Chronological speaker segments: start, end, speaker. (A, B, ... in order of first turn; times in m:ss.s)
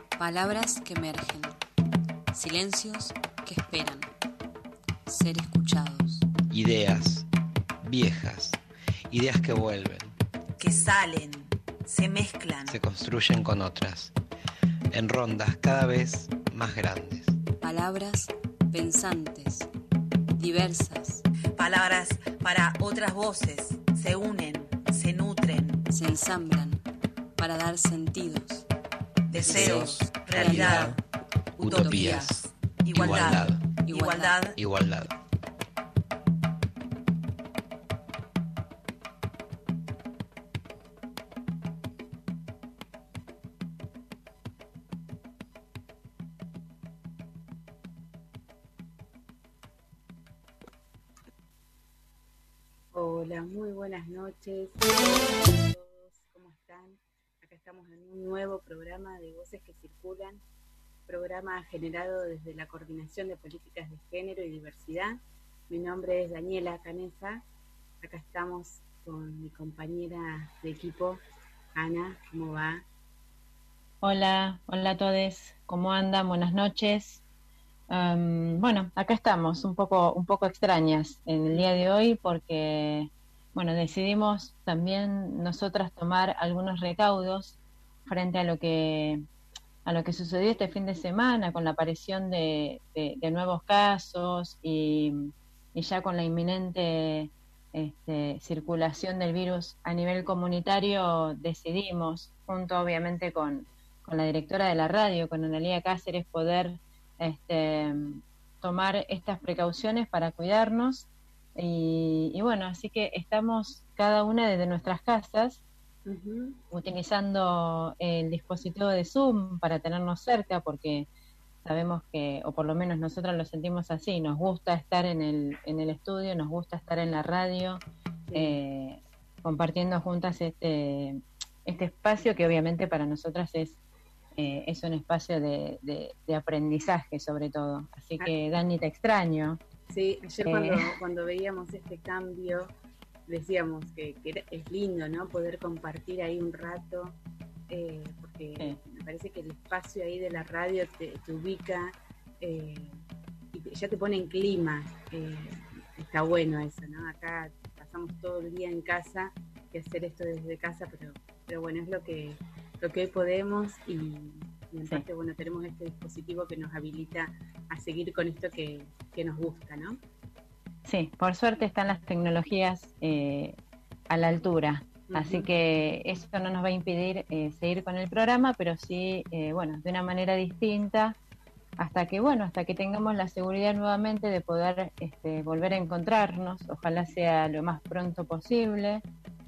0:00.2-0:01.6 A
0:02.3-0:04.1 A
0:05.1-0:06.3 A
0:06.5-0:07.3 B
0:07.8-0:10.2 B
0:10.6-0:12.8 C
0:12.6-0:14.1 B
0:14.9-0:17.4 B
0:17.6-0:19.7 A
0:20.3-0:21.2 A
0:21.6-0:25.8 C
0:25.9-0:26.8 A
0:27.4-0:28.7 A
0:29.3-0:31.0 C
0:29.4-0:31.0 A
0:29.4-0:31.0 B
0:31.6-0:34.6 C
0:31.6-0:33.7 B
0:31.7-0:32.1 A
0:33.8-0:34.5 A
0:34.5-0:35.1 B
0:52.9-1:00.4 D
1:01.1-1:07.4 D
1:08.0-1:11.2 D
1:11.7-1:12.8 D
1:14.0-1:17.2 E
1:17.9-1:29.2 E
1:29.8-1:55.6 E
1:56.0-1:56.6 D
1:56.7-2:01.1 E
2:01.6-2:07.8 E
2:08.3-2:08.6 D
2:08.3-2:13.8 E
2:14.4-2:19.6 E
2:19.9-2:22.7 D
2:20.4-2:20.9 E
2:23.3-2:27.2 D
2:27.7-2:33.0 D
2:33.5-2:50.0 D
2:50.8-2:53.6 E
2:54.1-3:01.2 E
2:55.1-2:55.5 D
3:01.8-3:09.0 E